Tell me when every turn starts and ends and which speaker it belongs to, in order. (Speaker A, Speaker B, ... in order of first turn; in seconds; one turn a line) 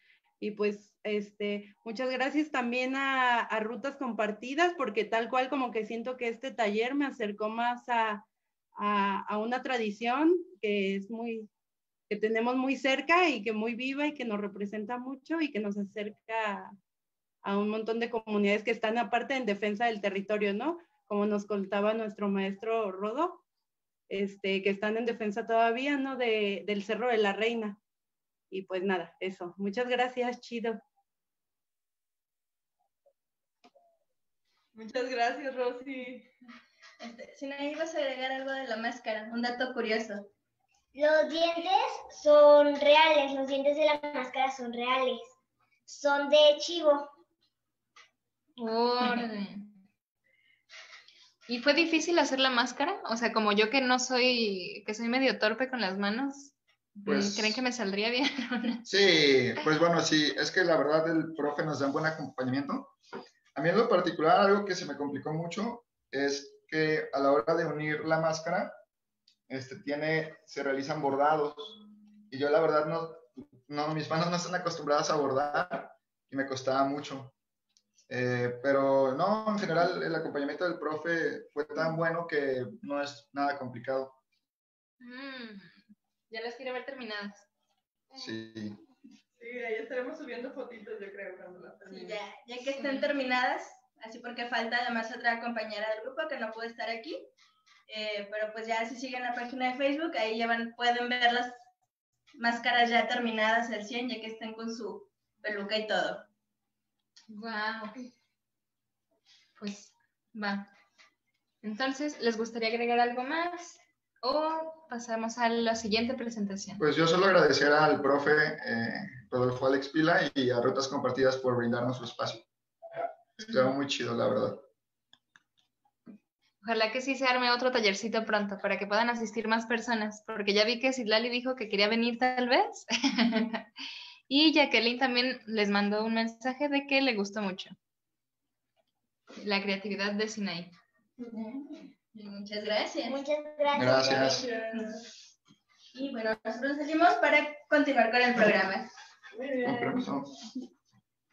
Speaker A: 0.4-8.2
Speaker A: 8.8-11.5
Speaker A: 12.1-16.7
Speaker A: 17.4-23.4
Speaker A: 24.1-27.8
Speaker A: 28.5-30.8
Speaker B: 34.7-36.3
Speaker C: 37.0-40.3
Speaker D: 40.9-45.2
Speaker D: 45.9-47.1
Speaker E: 48.6-49.7
Speaker E: 51.5-58.8
Speaker F: 57.0-57.6
Speaker F: 58.9-62.9
Speaker F: 63.5-68.7
Speaker F: 69.5-71.8
Speaker F: 72.3-77.3
Speaker F: 78.1-84.2
Speaker E: 85.0-85.8
Speaker E: 86.3-87.5
Speaker F: 88.1-88.8
Speaker B: 89.4-92.2
Speaker C: 91.9-97.3
Speaker E: 92.7-93.1
Speaker C: 97.9-101.5
Speaker C: 102.4-106.2
Speaker E: 107.3-107.9
Speaker E: 109.6-110.7
Speaker E: 111.6-116.8
Speaker F: 116.8-122.4
Speaker F: 123.5-124.6
Speaker E: 126.6-133.7
Speaker E: 134.3-137.7
Speaker E: 139.4-140.7
Speaker C: 141.3-143.2
Speaker D: 143.0-144.5
Speaker F: 143.7-144.5
Speaker B: 144.2-145.0
Speaker C: 145.9-148.9
Speaker B: 149.3-150.1
Speaker F: 149.6-150.4